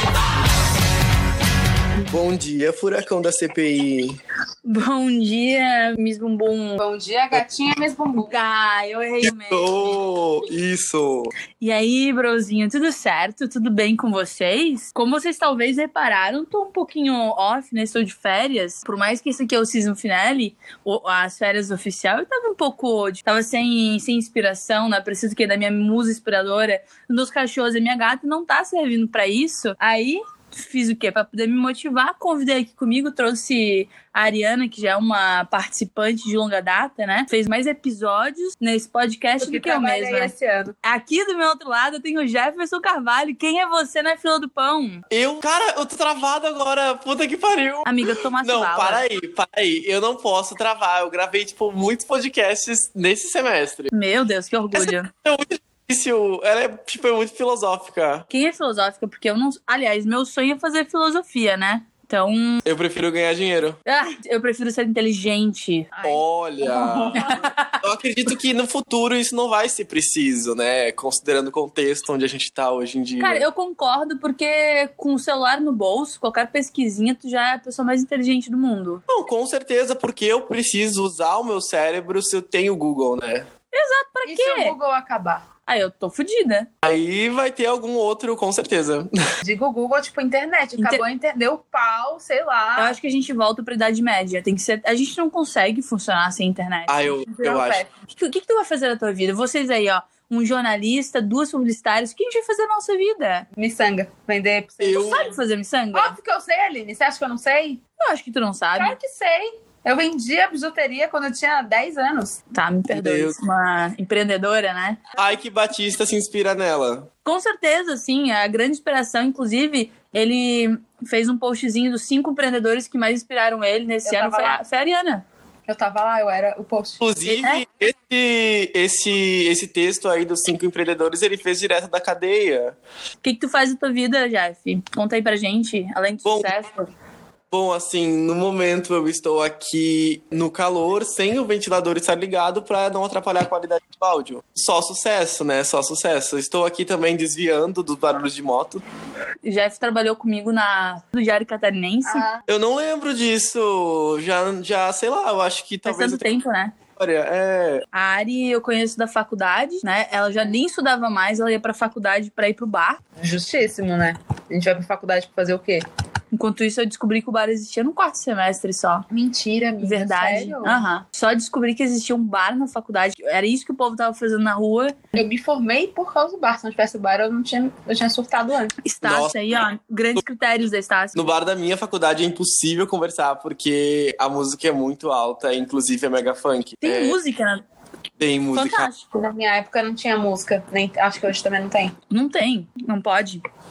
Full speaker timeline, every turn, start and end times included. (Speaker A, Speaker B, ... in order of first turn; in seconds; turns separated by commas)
Speaker A: 2.1-4.2, Speaker B: 4.7-6.8, Speaker C: 6.8-8.3, Speaker B: 8.3-9.9, Speaker A: 9.2-11.3, Speaker B: 11.6-40.3, Speaker C: 39.4-40.8, Speaker B: 40.8-45.0, Speaker A: 45.1-47.9, Speaker B: 47.9-49.0, Speaker A: 48.4-53.9, Speaker B: 53.9-55.1, Speaker A: 54.7-58.3, Speaker B: 58.3-62.6, Speaker A: 62.6-63.8, Speaker B: 63.9-65.9, Speaker C: 65.9-67.4, Speaker A: 66.0-73.5, Speaker B: 67.2-67.8, Speaker B: 73.2-79.0, Speaker A: 79.1-83.5, Speaker B: 83.7-84.8, Speaker C: 84.3-85.4, Speaker B: 85.7-86.7, Speaker A: 86.8-89.2, Speaker C: 89.4-93.0, Speaker B: 90.8-91.0, Speaker B: 92.8-97.1, Speaker A: 96.9-97.8, Speaker C: 97.2-97.9, Speaker B: 98.1-103.5, Speaker C: 103.6-105.3, Speaker A: 104.8-105.3, Speaker B: 105.0-106.2, Speaker C: 105.9-107.8, Speaker B: 108.0-109.0, Speaker C: 108.8-112.4, Speaker B: 112.5-115.0, Speaker A: 112.9-113.4, Speaker A: 115.2-117.1, Speaker B: 117.2-125.2, Speaker C: 124.0-124.6, Speaker C: 125.7-127.0, Speaker A: 127.0-132.8, Speaker B: 127.2-127.6, Speaker B: 133.2-136.9, Speaker A: 136.2-136.5, Speaker A: 137.5-148.8, Speaker B: 149.4-152.2, Speaker C: 152.1-152.4, Speaker A: 152.5-156.2, Speaker B: 155.8-156.8, Speaker A: 157.0-157.9, Speaker B: 157.9-163.0, Speaker C: 163.2-165.8, Speaker B: 166.3-169.1, Speaker C: 169.1-170.8, Speaker B: 169.8-175.0, Speaker C: 175.1-178.8, Speaker B: 178.8-181.2, Speaker A: 179.0-179.4, Speaker A: 181.2-187.2, Speaker B: 186.8-187.6, Speaker A: 188.2-188.9, Speaker B: 188.6-189.1, Speaker C: 189.1-191.9, Speaker B: 192.1-193.4